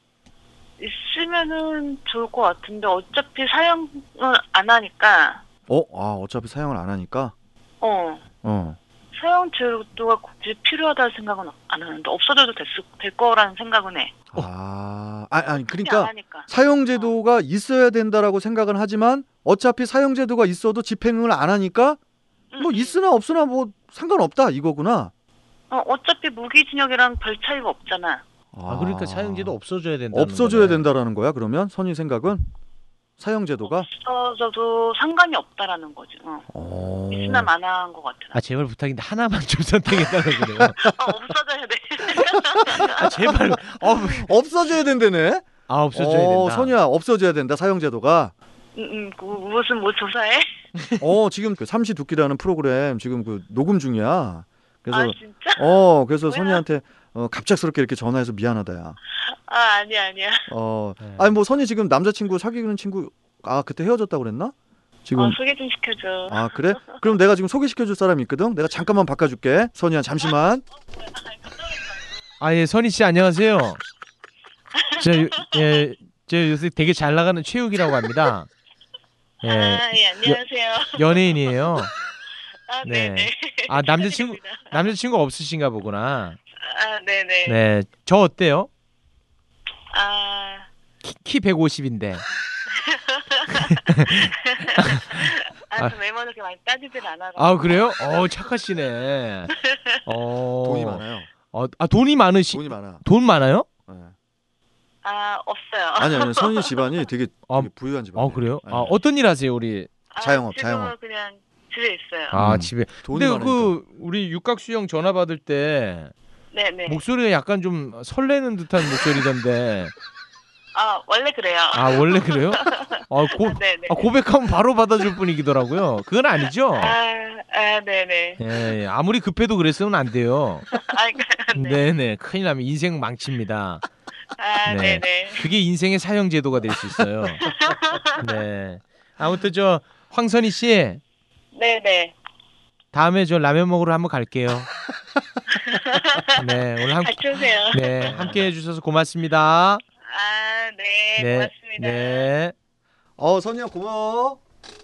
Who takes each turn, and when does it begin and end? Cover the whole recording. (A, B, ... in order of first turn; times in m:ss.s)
0:00.8-0:05.4 A
0:05.7-0:07.3 B
0:07.8-0:08.2 A
0:08.4-0:08.8 B
0:09.1-0:14.2 A
0:14.3-0:22.0 B
0:15.7-0:17.1 A
0:22.5-0:23.0 A
0:22.6-0:25.1 B
0:25.7-0:28.2 A
0:28.5-0:29.6 B
0:28.7-0:30.9 C
0:30.1-0:32.5 B
0:33.2-0:33.9 B
0:33.6-0:36.5 A
0:36.5-0:37.5 B
0:37.1-0:38.4 A
0:38.3-0:40.8 C
0:40.8-0:43.2 A
0:42.7-0:44.3 C
0:42.8-0:48.3 B
0:45.7-0:46.8 C
0:48.8-0:50.5 A
0:51.0-0:59.0 B
0:54.9-0:55.8 A
0:56.3-0:56.6 A
0:59.2-1:00.5 A
1:00.5-1:04.5 B
1:01.0-1:01.3 C
1:05.1-1:05.4 B
1:05.2-1:07.0 A
1:06.3-1:10.6 B
1:12.4-1:13.8 C
1:15.0-1:18.5 C
1:19.4-1:20.4 C
1:19.4-1:21.2 A
1:21.0-1:21.9 C
1:22.7-1:24.8 A
1:22.8-1:26.4 C
1:26.6-1:27.6 A
1:27.5-1:28.7 C
1:29.9-1:30.7 A
1:31.0-1:32.2 C
1:32.8-1:33.8 A
1:33.7-1:36.0 C
1:34.4-1:37.9 A
1:37.4-1:39.5 C
1:40.0-1:43.7 C
1:40.6-1:41.3 B
1:42.5-1:43.0 B
1:43.9-1:44.2 B
1:45.0-1:46.8 A
1:46.0-1:49.0 B
1:47.5-1:49.9 C
1:50.1-1:52.4 A
1:50.2-1:50.9 B
1:52.3-1:56.1 C
1:52.3-1:53.7 B
1:56.5-1:57.0 A
1:56.9-1:59.9 C
2:00.8-2:04.1 A
2:01.7-2:07.0 C
2:06.8-2:08.4 A
2:08.4-2:10.7 C
2:10.7-2:11.8 A
2:11.6-2:13.8 C
2:14.4-2:15.4 A
2:14.7-2:17.5 C
2:17.4-2:18.0 A
2:18.2-2:21.0 C
2:21.5-2:22.2 A
2:22.9-2:24.7 C
2:25.6-2:26.4 A
2:26.4-2:29.8 C
2:27.0-2:28.2 A
2:28.1-2:28.5 B
2:30.1-2:32.3 A
2:31.2-2:32.5 C
2:33.2-2:34.4 B